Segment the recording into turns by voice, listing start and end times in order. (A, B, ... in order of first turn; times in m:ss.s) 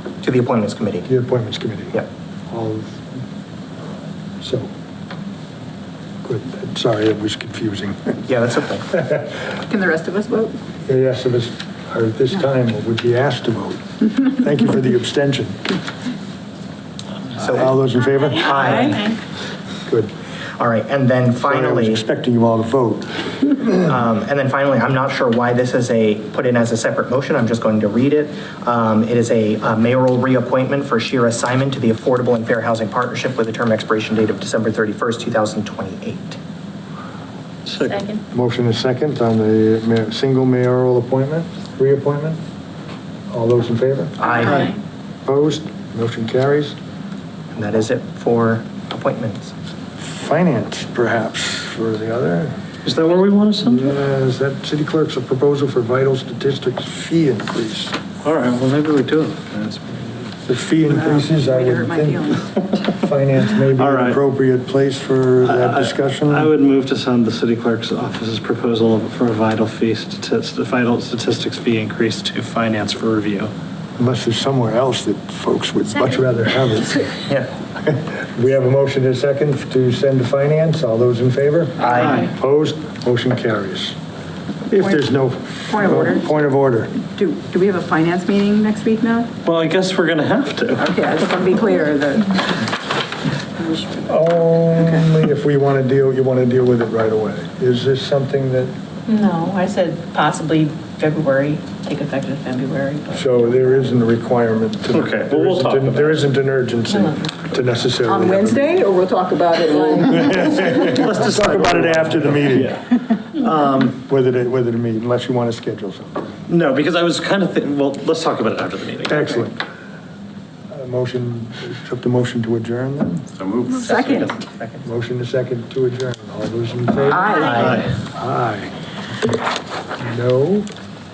0:00.2-0:01.1 A
0:01.0-0:03.0 B
0:04.4-0:04.7 B
0:06.2-0:08.2 B
0:08.2-0:08.9 A
0:08.9-0:09.5 B
0:09.7-0:10.5 C
0:10.8-0:15.7 B
0:17.4-0:19.1 B
0:17.4-0:17.8 A
0:18.3-0:19.2 A
0:20.6-0:22.0 A
0:21.4-0:23.6 B
0:23.7-0:36.4 A
0:37.6-0:38.1 D
0:38.3-0:42.4 B
0:43.3-0:44.6 B
0:44.2-0:44.7 A
0:45.2-0:46.8 B
0:47.5-0:49.5 A
0:50.0-0:52.6 B
0:52.8-0:53.9 D
0:53.6-0:58.0 B
0:58.2-1:00.3 D
1:00.4-1:06.5 B
1:01.0-1:02.4 C
1:03.5-1:04.2 D
1:05.4-1:13.5 D
1:14.0-1:17.2 B
1:17.8-1:24.0 B
1:21.8-1:22.2 A
1:21.8-1:22.3 D
1:24.7-1:27.0 B
1:25.7-1:26.3 C
1:27.1-1:29.3 C
1:29.4-1:31.4 D
1:30.9-1:32.6 C
1:33.6-1:34.2 E
1:34.0-1:38.7 B
1:39.0-1:44.0 E
1:43.1-1:48.8 B
1:44.9-1:46.2 D
1:46.9-1:47.3 E
1:48.0-1:50.8 C
1:50.0-1:52.8 B
1:50.4-1:54.0 D
1:53.9-1:56.4 B
1:56.5-1:59.5 D
1:59.1-1:59.6 B
2:00.7-2:03.3 B
2:03.4-2:04.3 D
2:03.8-2:04.8 A
2:03.9-2:04.3 C
2:04.8-2:08.7 B
2:07.1-2:07.5 C
2:07.3-2:07.8 A
2:07.5-2:07.9 D
2:10.0-2:10.7 B